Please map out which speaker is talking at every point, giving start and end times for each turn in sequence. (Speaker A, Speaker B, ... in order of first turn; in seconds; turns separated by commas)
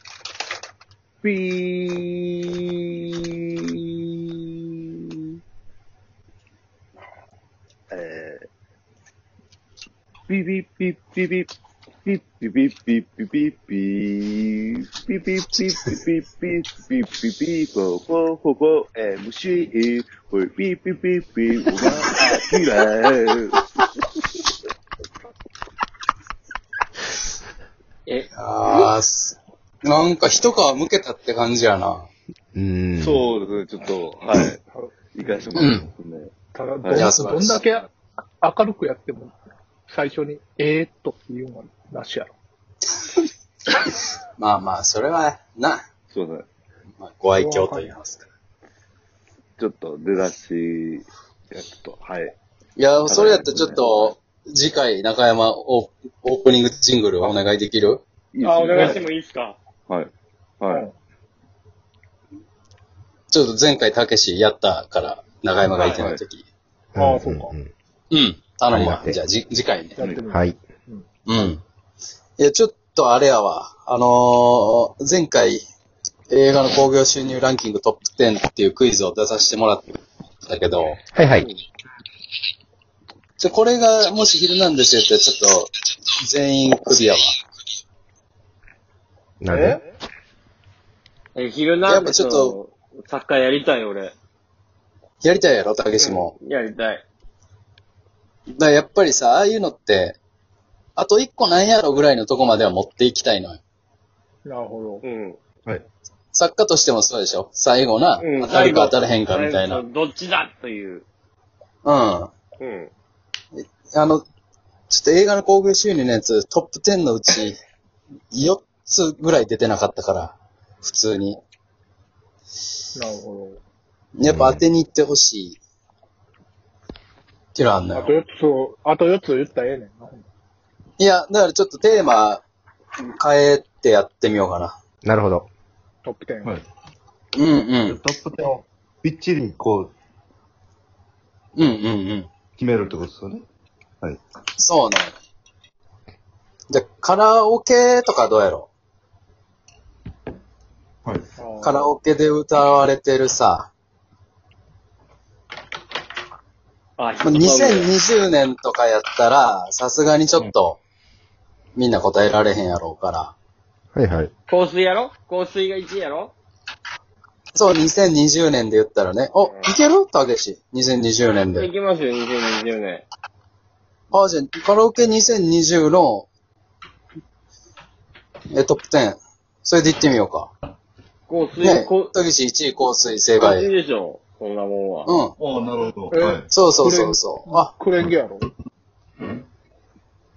Speaker A: 1.2-4.8, Speaker A: 7.9-8.4, Speaker A: 10.3-11.5, Speaker A: 12.0-23.6, Speaker B: 28.4-32.1, Speaker C: 32.5-33.2, Speaker A: 33.0-34.6, Speaker D: 34.7-35.4, Speaker A: 35.1-37.2, Speaker B: 35.5-35.9, Speaker D: 36.5-37.9, Speaker B: 36.9-37.6, Speaker D: 38.4-39.4, Speaker D: 39.9-42.3, Speaker B: 44.4-45.8, Speaker A: 46.1-46.5, Speaker B: 47.0-48.2, Speaker D: 47.4-47.9, Speaker A: 49.6-52.3, Speaker B: 52.8-58.0, Speaker A: 53.0-53.8, Speaker A: 58.3-59.1, Speaker E: 58.4-59.6, Speaker A: 59.9-60.9, Speaker B: 63.3-66.4, Speaker A: 66.0-66.2, Speaker C: 66.9-67.7, Speaker D: 67.0-67.5, Speaker B: 68.1-70.0, Speaker C: 68.7-69.2, Speaker A: 70.0-70.2, Speaker D: 70.0-71.0, Speaker C: 70.3-70.5, Speaker B: 71.2-71.6, Speaker B: 72.4-75.6, Speaker B: 76.3-81.0, Speaker C: 81.1-81.5, Speaker D: 81.3-81.6, Speaker B: 83.4-87.3, Speaker C: 89.4-89.8, Speaker D: 89.5-89.8, Speaker E: 91.3-94.1, Speaker B: 91.8-92.6, Speaker B: 95.2-96.3, Speaker E: 96.0-97.0, Speaker B: 98.5-100.2, Speaker B: 101.0-103.6, Speaker D: 104.4-105.0, Speaker E: 105.0-105.4, Speaker B: 106.3-109.8, Speaker E: 108.2-111.0, Speaker B: 111.8-112.3, Speaker E: 112.6-112.9, Speaker B: 113.5-114.2, Speaker B: 114.9-117.6, Speaker B: 118.3-121.4, Speaker D: 122.9-123.6, Speaker B: 124.2-125.6, Speaker F: 124.3-124.6, Speaker B: 127.5-128.1, Speaker D: 127.9-130.2, Speaker B: 131.0-132.4, Speaker B: 133.0-134.8, Speaker C: 135.0-135.5, Speaker D: 136.0-136.6, Speaker B: 137.3-138.0, Speaker F: 137.8-139.9, Speaker B: 141.6-142.3, Speaker F: 142.6-143.4, Speaker B: 144.6-145.1, Speaker B: 146.7-148.7, Speaker D: 151.4-151.9, Speaker B: 151.6-153.7, Speaker E: 157.0-157.9, Speaker B: 157.2-160.8, Speaker B: 161.7-163.3, Speaker C: 163.9-164.3, Speaker E: 164.5-166.3, Speaker B: 167.5-171.7, Speaker E: 169.4-169.7, Speaker E: 171.5-173.0, Speaker B: 174.1-176.3, Speaker B: 178.5-180.5, Speaker E: 181.3-182.1, Speaker B: 181.6-183.7, Speaker E: 183.4-185.2, Speaker B: 185.1-185.3, Speaker F: 185.4-186.5, Speaker D: 186.1-188.5, Speaker B: 186.5-187.7